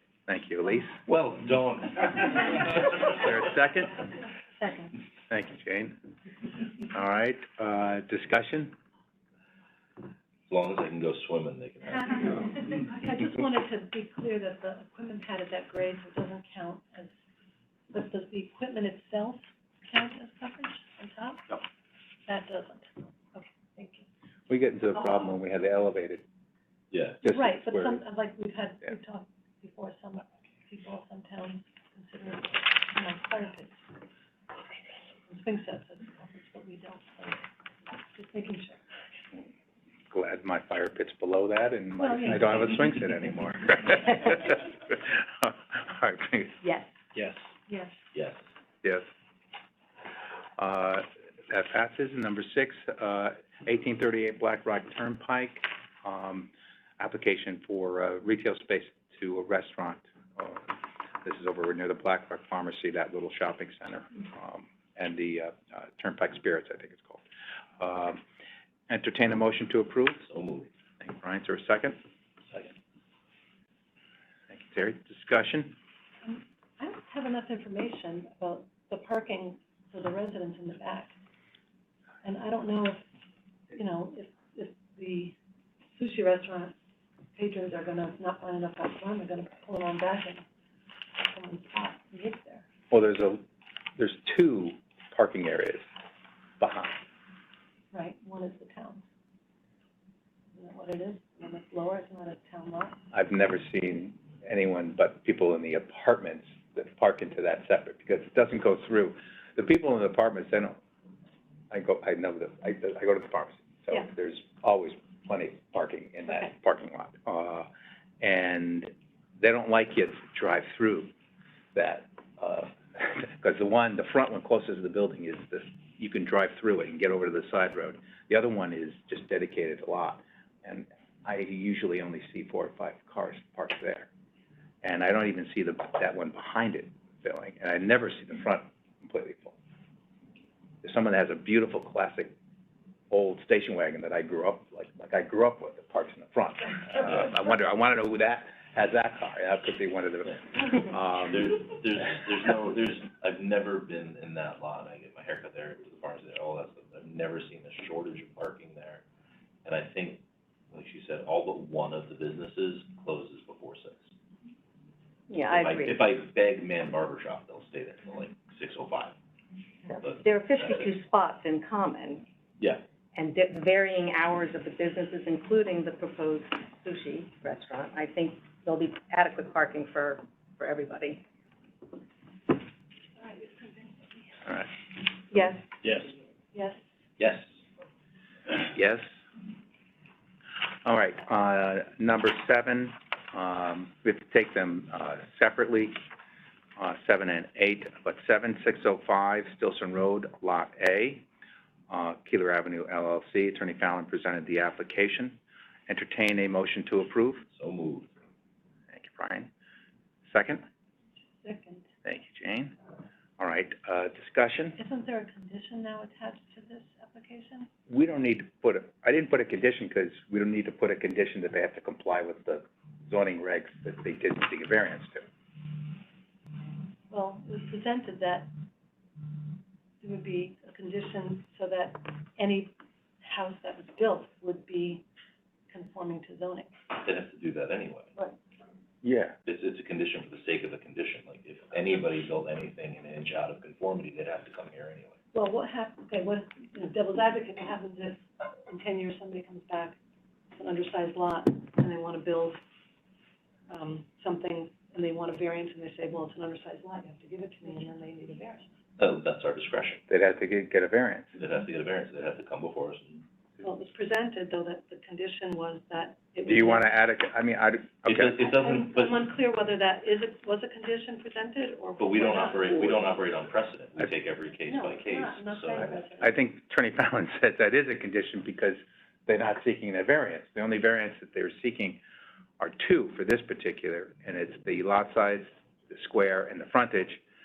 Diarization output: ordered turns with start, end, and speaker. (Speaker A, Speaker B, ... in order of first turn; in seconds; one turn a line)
Speaker A: 0.3-1.0
Speaker B: 1.1-3.0
Speaker A: 2.9-4.0
Speaker C: 4.6-4.9
Speaker A: 5.3-6.0
Speaker A: 6.8-8.7
Speaker B: 10.5-12.4
Speaker C: 12.0-17.1
Speaker C: 17.9-21.6
Speaker C: 22.3-24.1
Speaker A: 24.5-26.2
Speaker B: 26.9-27.2
Speaker A: 27.2-28.0
Speaker C: 27.2-33.8
Speaker C: 35.3-37.4
Speaker C: 38.0-38.8
Speaker A: 40.1-46.6
Speaker C: 42.0-43.1
Speaker D: 46.6-46.9
Speaker C: 47.7-47.9
Speaker B: 48.1-48.4
Speaker A: 50.6-67.2
Speaker A: 67.8-68.2
Speaker A: 68.9-70.3
Speaker B: 70.3-70.7
Speaker A: 71.0-72.0
Speaker A: 74.5-75.8
Speaker C: 76.2-81.1
Speaker C: 82.2-83.0
Speaker C: 83.7-85.3
Speaker C: 85.9-86.7
Speaker C: 87.3-90.4
Speaker C: 91.2-92.7
Speaker A: 92.9-93.4
Speaker A: 94.0-95.8
Speaker A: 96.6-97.0
Speaker C: 97.9-99.0
Speaker C: 100.5-103.0
Speaker A: 103.1-110.8
Speaker A: 111.7-117.7
Speaker A: 118.2-121.1
Speaker A: 121.7-134.1
Speaker A: 134.8-139.6
Speaker A: 140.8-142.3
Speaker A: 143.1-151.6
Speaker B: 151.2-159.0
Speaker B: 159.6-164.1
Speaker D: 165.3-166.0
Speaker B: 165.5-169.2
Speaker D: 169.9-172.2
Speaker B: 169.9-170.9
Speaker B: 172.6-172.8
Speaker D: 173.1-181.2
Speaker C: 183.2-184.4
Speaker A: 184.4-184.7
Speaker D: 185.3-185.8
Speaker B: 185.8-186.1
Speaker C: 186.5-186.8
Speaker B: 187.2-187.5
Speaker A: 188.6-189.1
Speaker A: 190.8-196.0
Speaker A: 196.8-201.2
Speaker A: 201.9-207.4
Speaker B: 207.5-208.1
Speaker A: 208.9-209.5
Speaker A: 210.2-210.6
Speaker C: 211.4-211.8
Speaker A: 212.0-212.7
Speaker A: 213.4-214.8
Speaker C: 214.8-217.7
Speaker A: 217.9-225.3
Speaker C: 227.1-228.5
Speaker C: 230.0-235.0
Speaker C: 235.7-236.7
Speaker B: 236.9-238.1
Speaker A: 239.0-239.3
Speaker B: 239.4-245.2
Speaker C: 245.3-250.0
Speaker C: 250.6-252.6
Speaker C: 253.7-258.6
Speaker B: 259.0-260.0
Speaker A: 260.1-261.4
Speaker B: 261.4-263.2
Speaker C: 263.6-267.0
Speaker A: 266.4-268.4
Speaker B: 268.0-269.2
Speaker C: 268.4-273.0
Speaker B: 272.0-275.9
Speaker C: 274.6-276.4
Speaker A: 276.2-282.0
Speaker A: 282.6-287.2